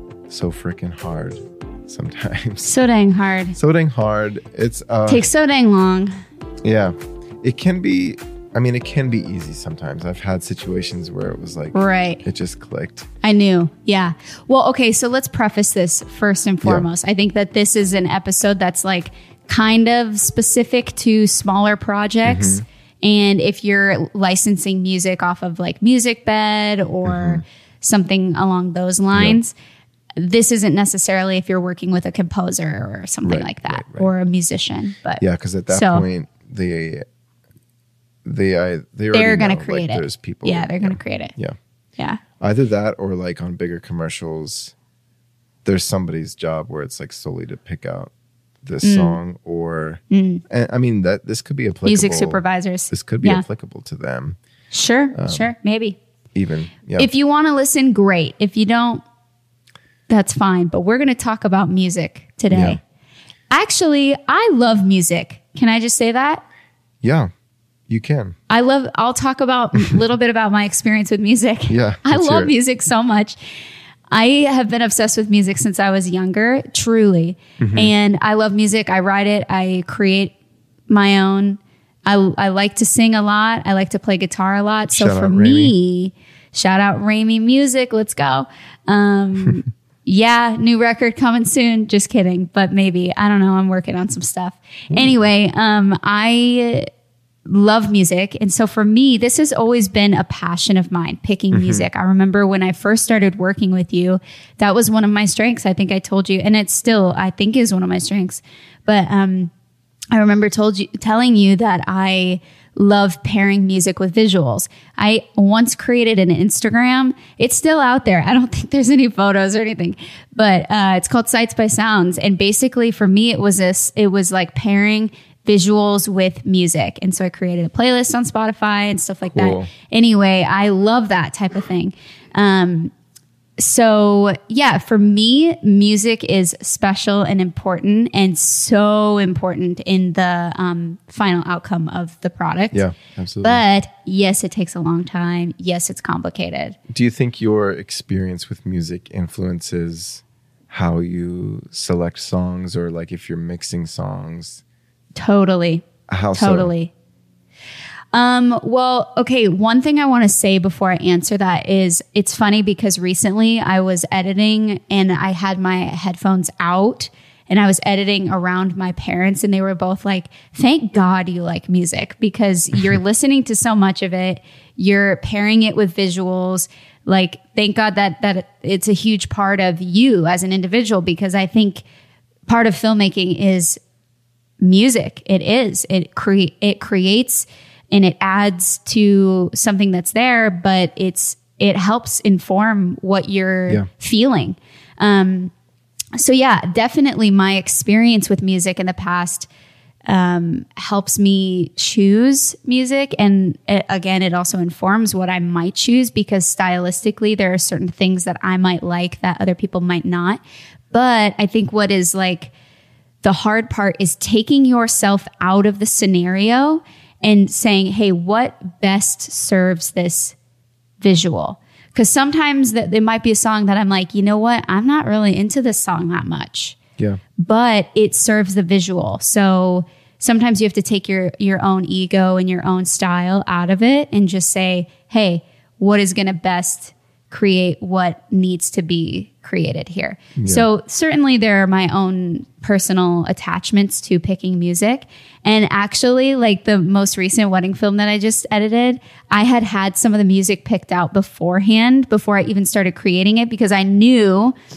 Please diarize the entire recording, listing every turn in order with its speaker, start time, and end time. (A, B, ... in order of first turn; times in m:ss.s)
0:00.3-0:02.7 A
0:02.6-0:03.6 B
0:03.6-0:05.2 A
0:05.0-0:06.1 B
0:06.6-0:13.1 A
0:11.7-0:12.2 B
0:13.2-0:29.5 B
0:16.6-0:16.9 A
0:22.2-0:22.6 A
0:27.0-0:27.4 A
0:29.1-0:29.4 A
0:30.2-0:36.0 B
0:33.2-0:34.1 A
0:35.2-0:37.0 A
0:38.2-0:41.6 A
0:39.1-0:41.3 B
0:42.0-0:42.2 B
0:42.4-0:44.7 A
0:45.6-0:48.1 A
0:48.6-0:54.4 A
0:48.8-0:49.2 B
0:50.1-0:50.4 B
0:51.8-0:53.4 B
0:54.7-0:56.0 B
0:55.1-0:55.5 A
0:56.3-0:57.1 A
0:57.0-0:59.0 B
1:00.1-1:02.8 B
1:02.5-1:02.8 A
1:03.5-1:06.4 B
1:07.0-1:07.3 A
1:07.9-1:08.3 A
1:08.5-1:13.4 B
1:11.7-1:12.5 A
1:14.1-1:20.3 B
1:17.6-1:17.9 A
1:20.9-1:36.9 B
1:24.9-1:25.7 A
1:34.9-1:35.2 A
1:37.4-1:49.5 B
1:41.5-1:41.9 A
1:50.1-2:12.9 B
2:09.3-2:09.7 A
2:13.6-2:22.8 B
2:22.7-2:23.6 A
2:23.4-2:26.8 B
2:26.9-2:34.6 A
2:35.2-2:36.9 B
2:36.1-2:36.7 A
2:38.1-3:01.8 B
3:02.5-3:03.8 B
3:04.6-3:15.5 B
3:16.1-3:19.5 B
3:20.1-3:30.4 B
3:30.9-3:32.5 B
3:33.2-3:40.4 B
3:41.0-3:46.8 B
3:47.4-4:14.5 B
4:00.4-4:00.7 A